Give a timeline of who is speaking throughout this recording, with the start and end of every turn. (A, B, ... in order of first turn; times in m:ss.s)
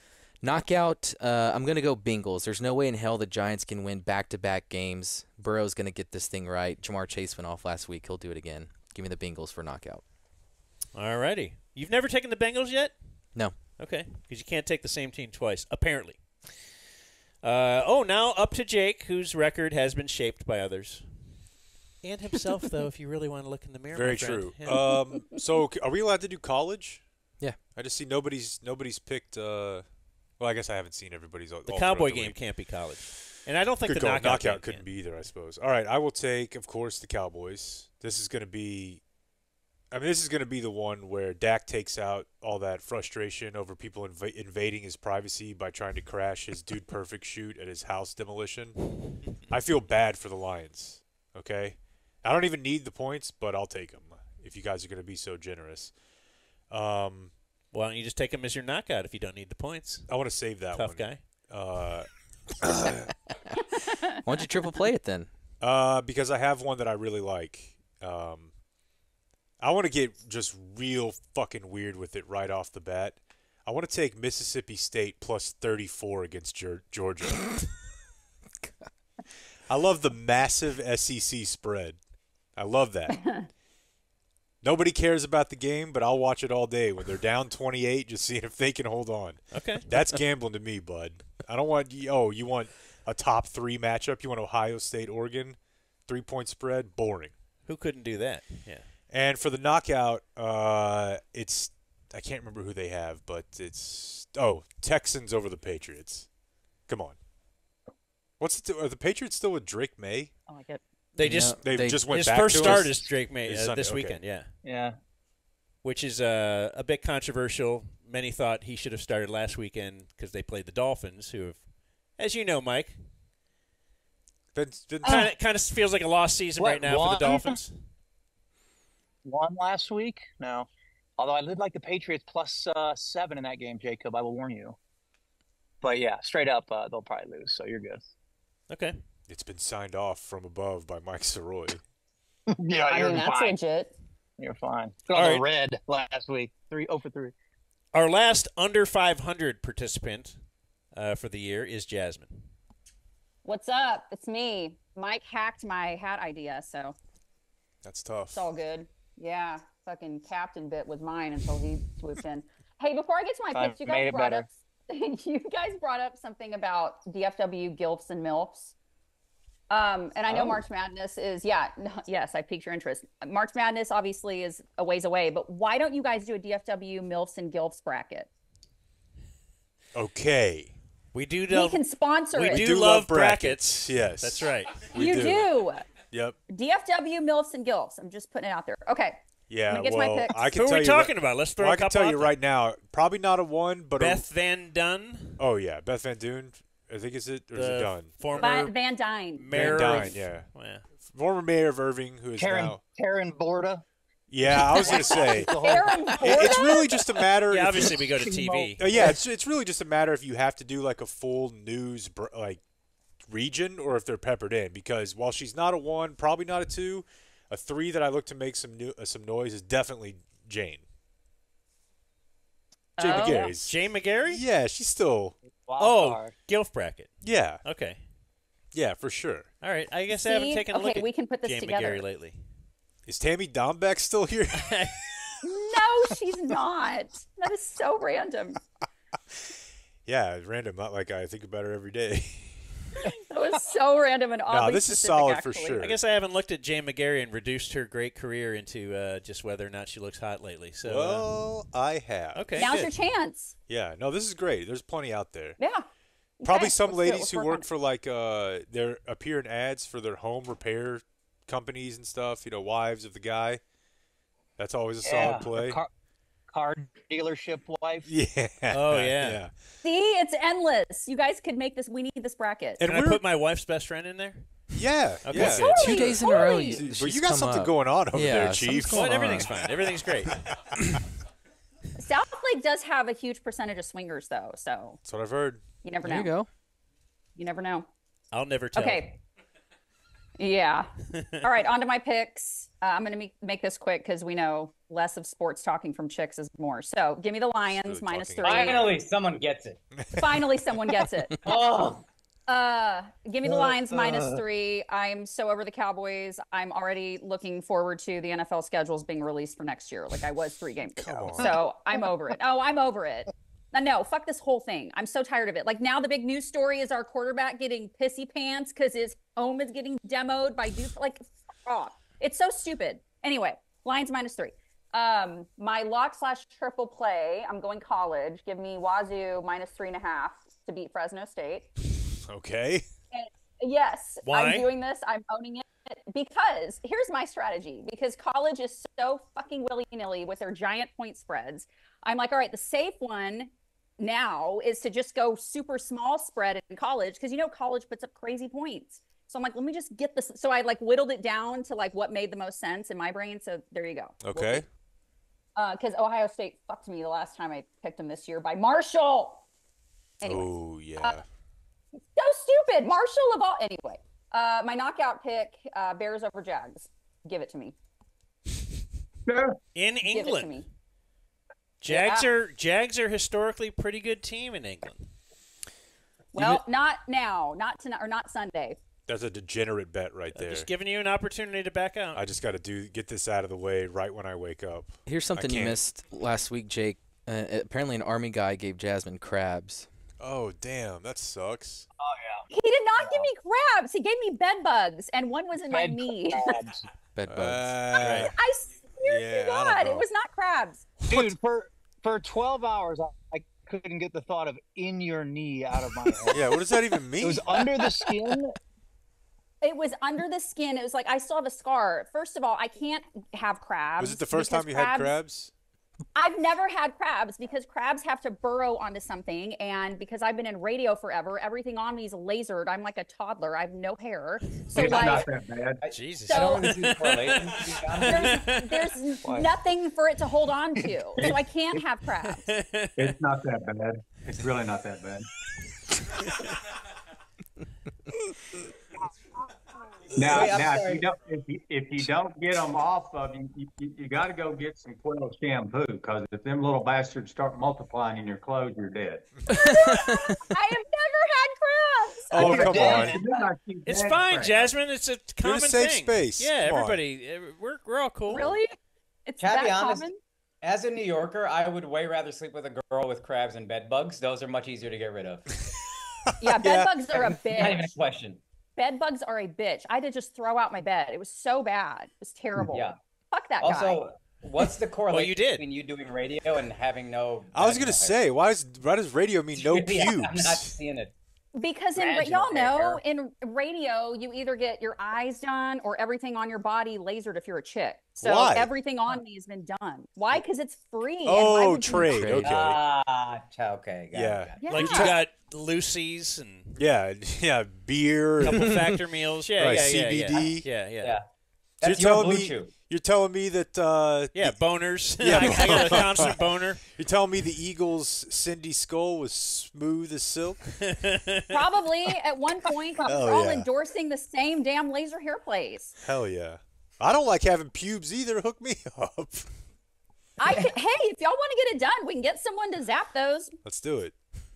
0:00.4-0:10.0 A
0:10.9-0:16.6 B
0:17.4-0:21.4 B
0:22.0-0:24.8 B
0:23.9-0:27.1 C
0:24.7-0:25.4 D
0:27.6-0:33.0 C
0:31.6-0:34.9 B
0:33.8-0:39.0 C
0:39.9-0:56.0 C
0:56.7-0:57.3 C
0:57.7-1:01.2 B
1:00.1-1:03.1 C
1:04.2-1:05.3 A
1:05.6-1:08.5 C
1:09.6-1:17.6 C
1:19.7-1:22.0 C
1:22.5-1:23.2 C
1:24.6-1:37.3 C
1:29.5-1:30.0 B
1:37.6-1:38.9 B
1:39.1-1:46.3 C
1:46.8-1:47.2 C
1:48.4-1:50.3 C
1:50.5-1:50.8 D
1:51.2-1:54.5 B
1:51.2-1:53.0 A
1:51.4-1:54.2 C
1:54.6-1:55.0 E
1:55.8-2:01.6 B
2:02.2-2:03.0 B
2:04.5-2:05.3 C
2:05.0-2:07.8 B
2:06.6-2:07.6 E
2:09.2-2:14.8 E
2:15.8-2:18.1 E
2:18.7-2:19.0 B
2:19.3-2:21.8 C
2:22.5-2:23.6 E
2:22.9-2:23.9 D
2:24.4-2:27.3 E
2:25.1-2:25.4 B
2:27.9-2:30.4 B
2:30.9-2:32.5 B
2:33.4-2:37.0 D
2:37.8-2:38.4 C
2:38.3-2:48.7 D
2:43.5-2:44.4 E
2:49.7-2:58.3 D
2:50.3-2:50.6 E
2:59.9-3:00.7 C
3:01.1-3:01.8 B
3:01.5-3:02.7 D
3:02.3-3:06.4 C
3:02.4-3:04.8 B
3:04.9-3:06.0 D
3:06.5-3:10.4 D
3:09.5-3:14.2 C
3:10.4-3:12.4 B
3:14.0-3:15.4 B
3:15.4-3:18.6 C
3:17.5-3:18.8 B
3:18.3-3:20.2 D
3:19.4-3:20.8 B
3:19.5-3:22.8 C
3:22.4-3:23.8 E
3:24.3-3:27.9 C
3:24.4-3:26.6 E
3:24.9-3:27.1 D
3:27.5-3:29.1 B
3:28.2-3:29.2 E
3:28.8-3:32.6 C
3:33.2-3:40.8 C
3:43.0-3:43.5 D
3:43.0-3:45.4 C
3:43.0-3:44.4 B
3:45.6-3:46.3 E
3:45.8-3:48.0 B
3:47.2-3:47.6 C
3:48.7-3:49.5 C
3:49.6-3:52.4 B
3:50.1-3:52.0 D
3:53.0-3:55.4 C
3:54.5-3:55.0 B
3:55.4-3:58.6 D
4:00.0-4:02.6 C
4:03.0-4:05.8 D
4:04.5-4:06.0 C
4:05.8-4:11.4 B
4:10.8-4:12.8 C
4:12.3-4:12.9 B
4:12.6-4:13.5 D
4:13.7-4:15.6 C
4:15.6-4:15.8 D
4:16.4-4:17.6 D
4:16.4-4:23.6 C
4:24.6-4:25.8 C
4:25.0-4:25.9 E
4:26.5-4:28.1 E
4:28.1-4:29.5 C
4:28.7-4:29.4 B
4:29.8-4:32.8 D
4:32.8-4:33.2 C
4:32.8-4:34.5 B
4:34.7-4:39.6 C
4:35.2-4:35.9 B
4:35.4-4:36.8 D
4:35.4-4:39.5 A
4:38.9-4:40.4 B
4:42.0-4:45.0 D
4:45.0-4:45.6 C
4:45.8-4:46.3 D
4:46.0-4:46.5 A
4:47.4-4:47.9 D
4:48.3-4:49.1 B
4:48.8-4:49.2 D
4:50.4-4:50.9 D
4:51.1-4:51.5 B
4:51.4-4:59.0 D
4:57.8-4:58.8 C
4:58.4-4:59.8 F
4:59.9-5:00.6 C
5:00.1-5:01.9 D
5:01.4-5:02.0 F
5:02.5-5:31.7 D
5:03.4-5:04.4 E
5:11.0-5:11.6 C
5:32.2-5:32.8 C
5:33.1-5:54.6 D
5:34.2-5:34.7 B
5:54.2-5:54.6 C
5:55.6-5:59.4 D
6:00.2-6:01.2 D
6:00.2-6:01.2 C
6:02.1-6:07.7 D
6:09.3-6:09.6 G
6:09.7-6:10.6 B
6:10.0-6:10.7 D
6:11.8-6:15.1 B
6:11.9-6:12.3 D
6:16.3-6:18.8 D
6:19.1-6:20.7 C
6:20.3-6:22.2 B
6:22.1-6:25.8 C
6:25.0-6:29.9 A
6:30.2-6:31.9 C
6:32.0-6:32.4 E
6:32.5-6:36.6 D
6:35.7-6:36.8 E
6:37.1-6:37.8 A
6:37.3-6:38.4 C
6:37.9-6:41.0 D
6:38.0-6:38.3 B
6:39.0-6:40.0 C
6:41.0-6:41.3 C
6:41.1-6:46.4 E
6:46.3-6:47.6 C
6:47.2-6:48.5 E
6:49.6-6:55.1 D
6:54.0-6:55.5 C
6:56.2-7:05.3 D
7:04.7-7:05.8 G
7:04.8-7:05.1 F
7:05.8-7:08.5 F
7:05.9-7:08.9 B
7:06.3-7:06.8 D
7:08.0-7:12.5 D
7:09.2-7:09.5 E
7:12.2-7:13.2 B
7:13.0-7:15.3 G
7:20.1-7:29.3 G
7:20.2-7:21.0 F
7:29.5-7:33.3 D
7:32.3-7:33.2 C
7:32.3-7:34.7 G
7:32.6-7:33.1 E
7:33.8-7:38.5 B
7:35.4-7:37.0 C
7:38.3-7:40.2 D
7:39.4-7:40.1 F
7:40.6-7:45.5 F
7:46.3-7:47.0 C
7:46.4-7:47.9 D
7:47.1-7:48.4 F
7:48.8-7:54.0 D
7:52.7-7:53.0 F
7:53.6-7:58.2 F
7:55.1-7:55.6 B
7:57.5-8:00.7 C
7:59.5-8:01.1 F
8:01.5-8:12.2 D
8:01.9-8:03.0 F
8:08.2-8:08.7 C
8:11.2-8:12.8 C
8:11.9-8:12.5 A
8:12.4-8:14.7 F
8:14.1-8:15.2 C
8:14.6-8:15.1 D
8:14.7-8:16.8 B
8:16.8-8:18.8 C
8:18.4-8:21.2 B
8:19.6-8:20.7 C
8:21.8-8:22.7 F
8:21.8-8:30.8 C
8:24.3-8:26.8 B
8:30.8-8:31.6 B
8:31.5-8:36.0 D
8:33.0-8:33.7 C
8:36.0-8:39.5 C
8:40.4-8:43.6 D
8:43.6-8:44.2 C